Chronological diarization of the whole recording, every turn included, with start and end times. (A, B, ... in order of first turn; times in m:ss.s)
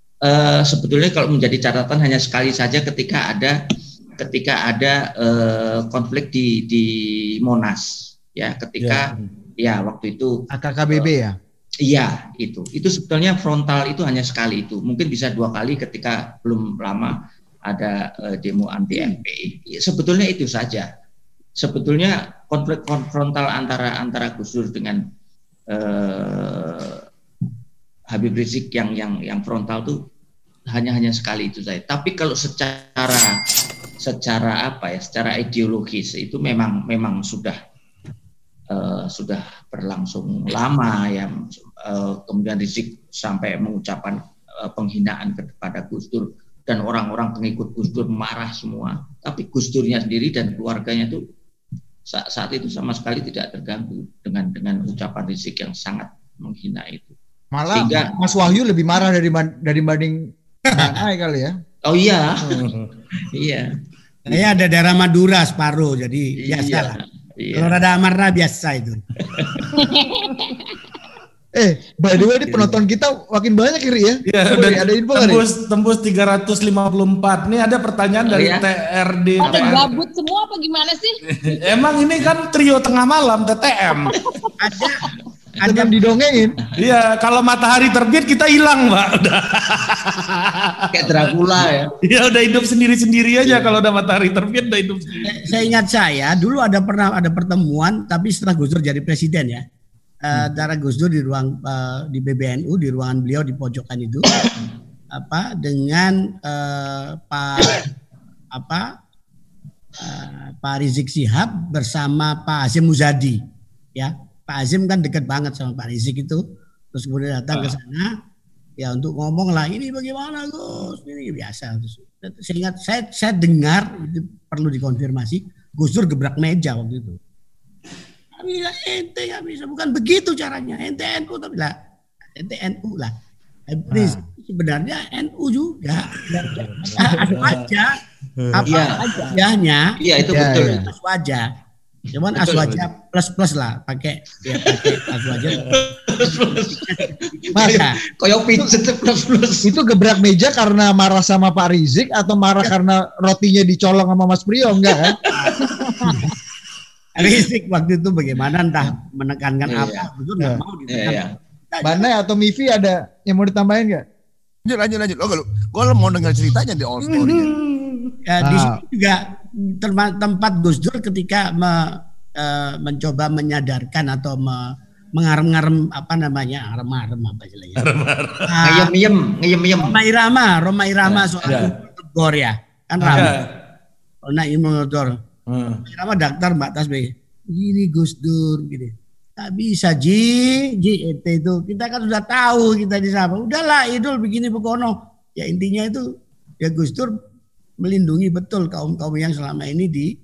0:00.2-0:03.6 A
0:04.2-0:11.1 A
0:10.5-0:11.4 B
0:11.8-0:17.2 A
0:17.7-0:20.9 A
0:21.6-0:25.0 A
0:25.7-0:27.0 A
0:28.1-0:30.0 A
0:30.7-0:33.3 A
0:34.0-0:37.6 A
0:38.7-0:51.2 A
0:52.1-0:57.2 A
0:57.5-1:01.6 B
0:57.7-0:58.2 A
1:01.8-1:02.6 A
1:02.6-1:02.8 C
1:03.3-1:03.7 A
1:04.3-1:07.0 D
1:06.4-1:07.8 A
1:07.5-1:09.0 D
1:09.3-1:09.7 A
1:09.8-1:10.7 E
1:11.6-1:15.4 B
1:12.5-1:12.8 A
1:14.3-1:19.9 C
1:18.3-1:18.6 A
1:19.4-1:21.2 E
1:19.4-1:19.9 A
1:21.5-1:24.1 C
1:24.1-1:24.5 E
1:24.6-1:25.0 D
1:25.6-1:25.9 D
1:25.6-1:26.6 B
1:26.8-1:31.3 C
1:30.9-1:31.9 A
1:32.0-1:35.7 C
1:35.2-1:39.6 D
1:40.2-1:44.4 D
1:45.1-1:47.8 D
1:48.5-1:48.9 D
1:50.0-1:53.4 D
1:54.0-1:56.4 D
1:56.9-1:58.1 D
1:58.8-2:07.2 D
2:08.4-2:11.7 D
2:12.4-2:13.1 D
2:13.7-2:18.0 D
2:13.9-2:14.2 B
2:16.3-2:17.7 C
2:18.4-2:19.2 C
2:18.5-2:19.9 D
2:18.7-2:19.1 A
2:20.0-2:20.9 A
2:20.3-2:20.9 B
2:20.6-2:21.5 D
2:22.1-2:25.6 D
2:22.4-2:22.7 A
2:22.6-2:22.8 C
2:25.5-2:25.8 C
2:25.7-2:26.8 A
2:26.2-2:28.0 D
2:27.4-2:29.7 A
2:29.6-2:35.2 B
2:37.2-2:42.1 D
2:39.7-2:40.1 A
2:40.9-2:41.3 A
2:41.8-2:44.0 B
2:44.7-2:47.5 F
2:48.3-2:57.8 D
2:48.4-2:48.8 B
2:57.8-2:58.5 C
2:58.5-2:58.9 D
2:58.6-3:00.0 A
2:59.8-3:03.3 D
3:01.4-3:01.7 C
3:03.0-3:03.5 C
3:04.3-3:05.1 D
3:05.5-3:05.8 C
3:05.8-3:16.0 D
3:16.6-3:17.1 D
3:17.8-3:20.1 D